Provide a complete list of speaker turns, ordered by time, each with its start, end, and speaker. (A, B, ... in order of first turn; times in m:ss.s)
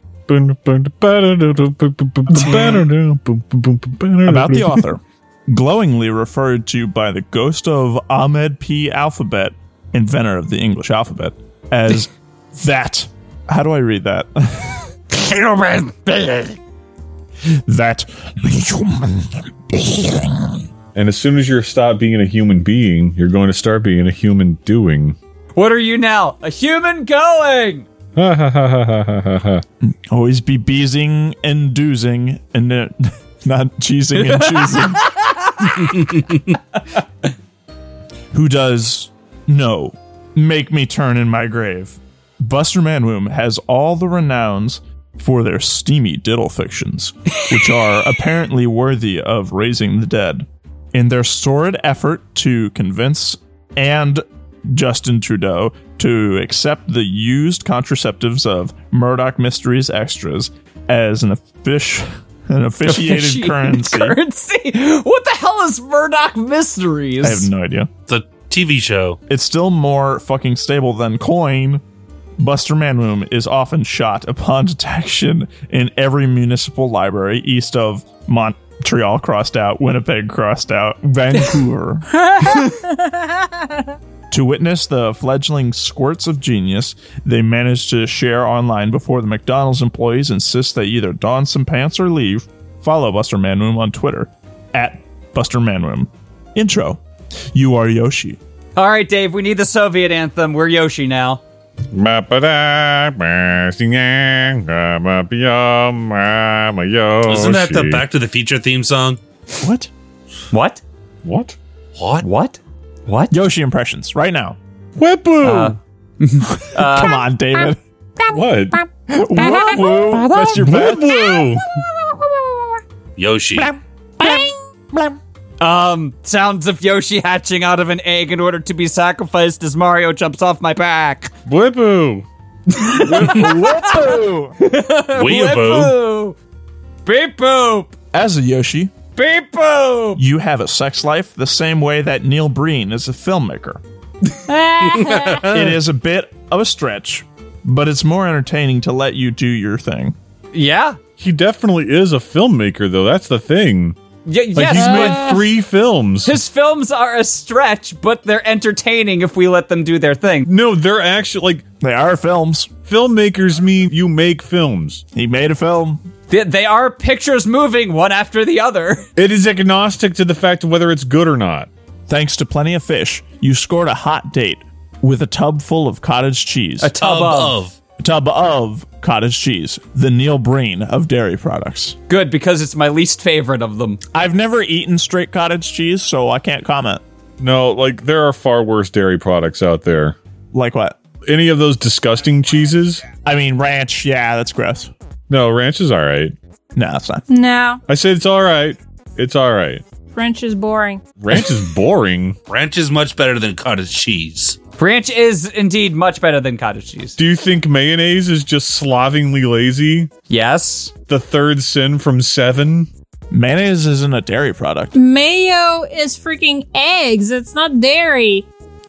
0:00.3-0:04.8 A
0:02.3-0:02.8 B
0:04.2-0:15.0 C
0:15.1-0:16.6 B
0:17.5-0:20.6 C
0:21.0-0:25.2 A
0:25.6-0:27.9 B
0:28.2-0:29.6 A
0:29.8-0:35.1 C
0:34.2-0:36.6 B
0:38.3-1:04.2 C
1:02.9-1:07.5 B
1:07.2-1:07.9 C
1:08.1-1:09.2 D
1:09.3-1:11.8 C
1:12.4-1:22.3 C
1:22.2-1:23.8 E
1:24.3-1:37.0 C
1:37.5-1:38.4 C
1:38.8-1:41.4 B
1:41.9-1:48.0 A
1:47.3-1:49.2 D
1:49.6-1:49.9 C
1:50.5-1:50.8 B
1:51.2-1:51.6 A
1:52.0-1:52.3 D
1:52.2-1:53.3 B
1:53.3-1:54.6 C
1:55.0-1:55.8 A
1:55.4-1:57.2 B
1:56.4-1:57.8 C
1:58.3-1:58.8 A
1:59.1-2:01.2 C
2:00.5-2:01.8 A
2:03.2-2:03.7 D
2:03.6-2:05.2 C
2:04.2-2:04.5 E
2:05.6-2:11.3 B
2:11.5-2:12.3 A
2:12.7-2:16.4 B
2:12.9-2:14.6 C
2:15.1-2:16.0 D
2:17.0-2:18.0 B
2:18.1-2:18.9 C
2:19.2-2:20.2 B
2:20.2-2:23.8 C
2:24.5-2:25.5 E
2:25.5-2:30.2 C
2:30.5-2:31.0 B
2:31.2-2:34.0 A
2:34.2-2:35.4 B
2:34.6-2:36.4 A
2:34.8-2:35.2 E
2:36.2-2:40.5 B
2:40.5-2:41.6 A
2:41.8-2:42.7 C
2:42.9-2:45.0 A
2:45.1-2:46.0 C
2:46.3-2:49.1 B
2:49.2-2:51.7 A
2:52.1-2:57.0 C
2:56.8-2:57.6 B
2:57.0-2:57.8 D
2:58.0-3:02.0 C
3:02.1-3:04.0 B
3:04.1-3:07.0 C
3:07.4-3:10.2 A
3:10.5-3:11.0 C
3:11.3-3:13.1 A
3:13.2-3:14.9 C
3:15.3-3:16.4 A
3:16.8-3:17.2 C
3:17.3-3:17.8 E
3:17.9-3:19.8 A
3:20.1-3:21.0 E
3:21.2-3:22.4 A
3:22.5-3:24.6 D
3:24.8-3:27.2 B
3:27.2-3:30.1 A
3:30.3-3:30.9 B
3:31.1-3:32.9 A
3:33.3-3:34.9 C
3:35.0-3:38.5 E